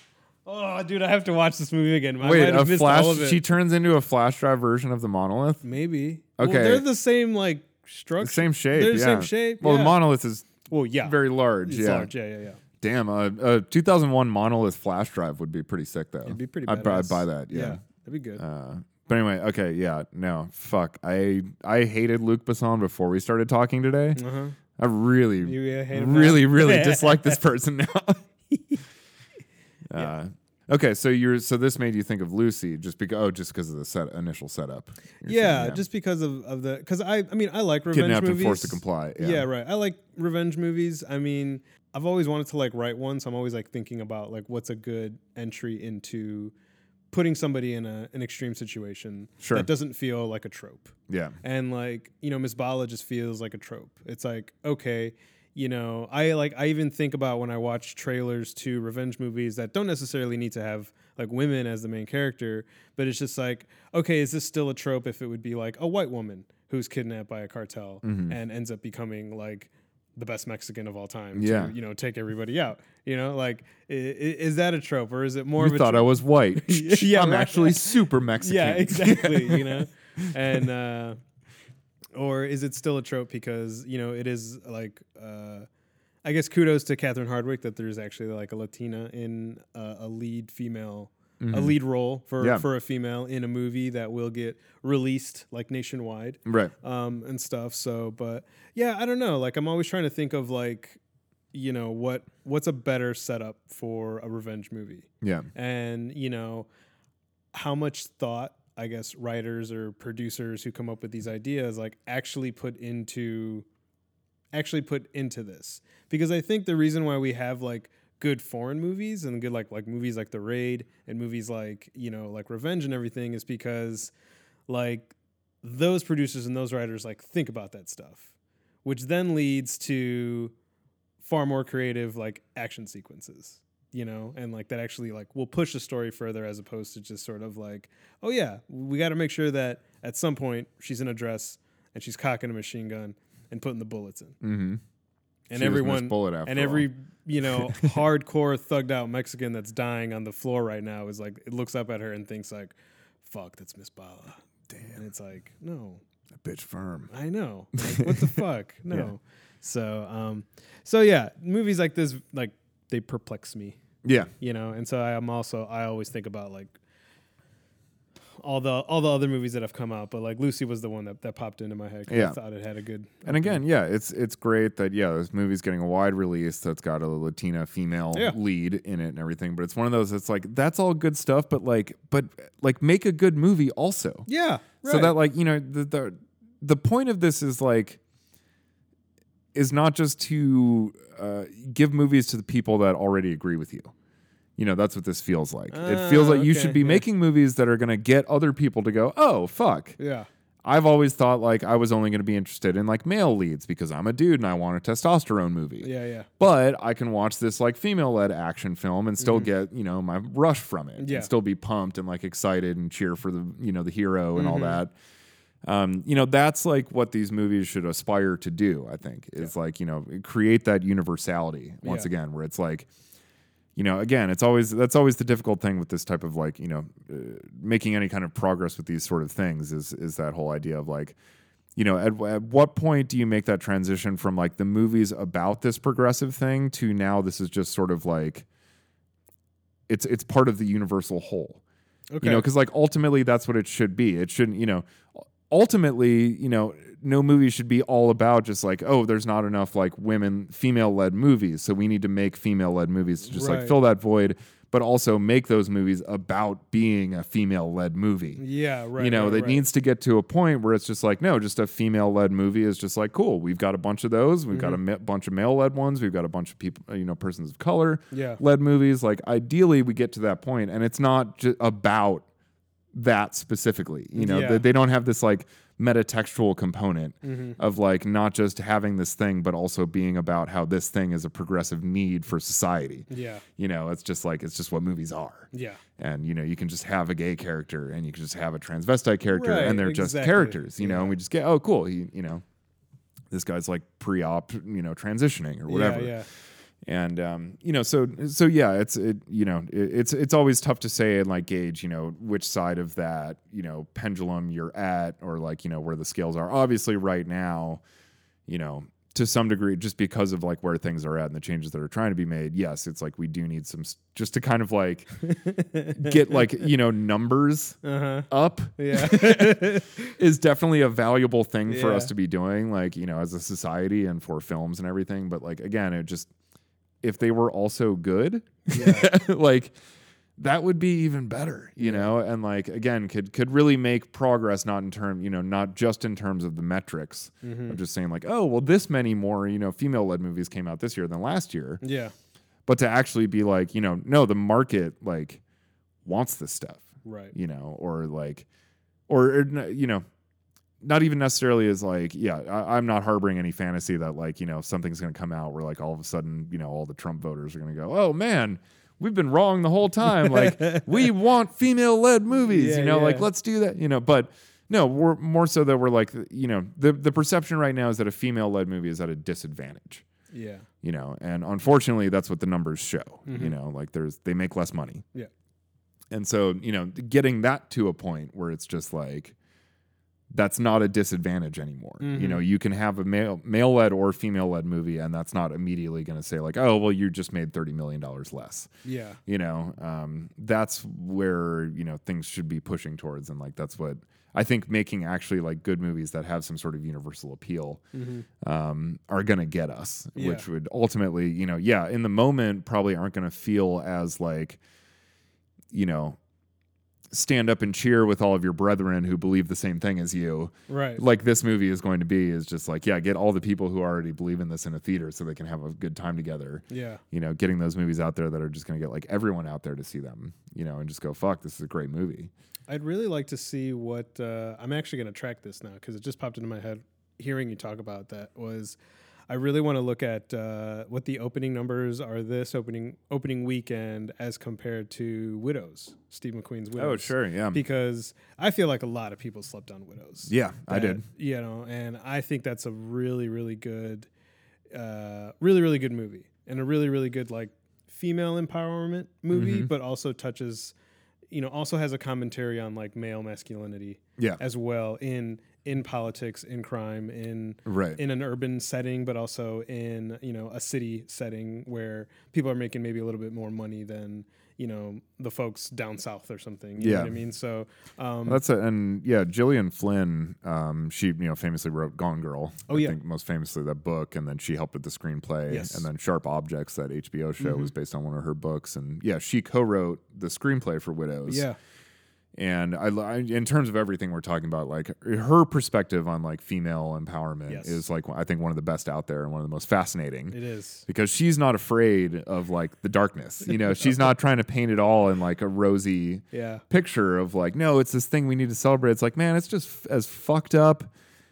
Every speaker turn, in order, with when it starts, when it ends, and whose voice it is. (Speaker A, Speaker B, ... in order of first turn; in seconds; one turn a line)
Speaker A: 0.5-3.4
Speaker B: 2.2-5.7
Speaker A: 5.6-10.0
Speaker B: 6.4-6.8
Speaker B: 8.2-12.1
Speaker A: 10.7-12.6
Speaker B: 12.8-17.8
Speaker A: 16.2-18.4
Speaker B: 18.4-24.2
Speaker A: 24.1-24.6
Speaker B: 24.8-28.2
Speaker A: 25.4-27.4
Speaker A: 28.5-28.8
Speaker B: 29.9-35.8
Speaker A: 35.2-46.5
Speaker B: 37.9-39.5
Speaker A: 47.1-81.2
Speaker B: 49.4-49.7
Speaker B: 51.1-51.4
Speaker B: 68.0-68.3
Speaker B: 71.3-71.7
Speaker B: 75.6-80.3
Speaker A: 82.1-85.7
Speaker A: 86.2-101.0
Speaker B: 91.4-91.8
Speaker B: 92.4-92.7
Speaker B: 96.5-96.7
Speaker A: 101.5-106.7
Speaker B: 105.2-105.5
Speaker A: 107.5-113.7
Speaker A: 114.5-124.1
Speaker A: 124.7-128.3
Speaker A: 128.8-130.5
Speaker A: 131.2-144.4
Speaker B: 144.4-144.8
Speaker A: 145.5-156.0
Speaker B: 145.5-146.9
Speaker B: 147.6-148.0
Speaker B: 154.7-155.0
Speaker B: 156.4-157.1
Speaker A: 157.1-163.8
Speaker B: 157.8-159.1
Speaker B: 164.0-164.3
Speaker A: 164.4-166.8
Speaker A: 168.4-173.6
Speaker B: 172.1-172.4
Speaker B: 173.2-184.3
Speaker A: 184.3-185.2
Speaker B: 184.8-188.0
Speaker B: 189.5-193.9
Speaker B: 194.6-200.0
Speaker A: 195.7-197.0
Speaker A: 200.0-200.3
Speaker B: 200.6-205.9
Speaker A: 205.8-206.3
Speaker B: 206.4-214.9
Speaker A: 209.2-209.5
Speaker A: 211.0-211.3
Speaker A: 214.3-214.8
Speaker B: 215.6-222.9
Speaker A: 221.8-222.1
Speaker B: 223.8-231.2
Speaker B: 231.8-238.4
Speaker B: 239.9-241.6
Speaker A: 242.1-242.5
Speaker B: 242.2-258.4
Speaker A: 253.3-253.8
Speaker A: 258.4-259.6
Speaker B: 259.0-272.2
Speaker A: 264.5-264.8
Speaker A: 268.1-268.4
Speaker B: 272.9-292.4
Speaker A: 274.1-274.6
Speaker A: 277.2-277.6
Speaker A: 283.1-283.4
Speaker A: 285.5-285.8
Speaker A: 289.3-291.1
Speaker B: 293.3-296.1
Speaker A: 295.7-296.3
Speaker B: 296.8-307.8
Speaker B: 308.5-315.1
Speaker A: 315.3-316.4
Speaker B: 315.9-317.8
Speaker A: 317.8-320.1
Speaker B: 318.3-326.3
Speaker A: 321.7-322.1
Speaker B: 327.0-329.8
Speaker A: 328.7-329.1
Speaker B: 330.4-341.8
Speaker A: 331.8-332.1
Speaker A: 337.4-337.8
Speaker A: 341.8-342.1
Speaker B: 342.7-345.4
Speaker B: 346.0-348.4
Speaker A: 347.0-347.3
Speaker B: 349.1-350.0
Speaker B: 350.8-370.1
Speaker A: 360.2-361.1
Speaker A: 362.4-363.3
Speaker A: 370.3-370.6
Speaker B: 370.8-375.0
Speaker A: 373.2-373.5
Speaker B: 376.1-379.3
Speaker B: 380.3-388.7
Speaker A: 382.0-382.4
Speaker A: 388.8-389.2
Speaker B: 389.3-397.8
Speaker A: 397.9-398.3
Speaker B: 398.4-404.6
Speaker A: 400.1-400.4
Speaker B: 405.7-406.2
Speaker B: 407.1-422.3
Speaker A: 410.7-411.0
Speaker A: 416.7-417.0
Speaker A: 422.7-428.8
Speaker A: 429.3-444.1
Speaker B: 436.8-437.6
Speaker B: 440.3-441.0
Speaker A: 444.7-450.7
Speaker B: 449.3-449.7
Speaker A: 451.3-468.4
Speaker B: 457.6-458.0
Speaker B: 466.8-467.2
Speaker B: 468.3-481.4
Speaker A: 472.7-473.0
Speaker A: 475.5-475.9
Speaker A: 477.4-477.7
Speaker A: 481.3-481.6
Speaker B: 482.4-490.4
Speaker A: 487.5-487.8
Speaker A: 490.3-490.9
Speaker B: 490.9-500.9
Speaker A: 496.3-496.6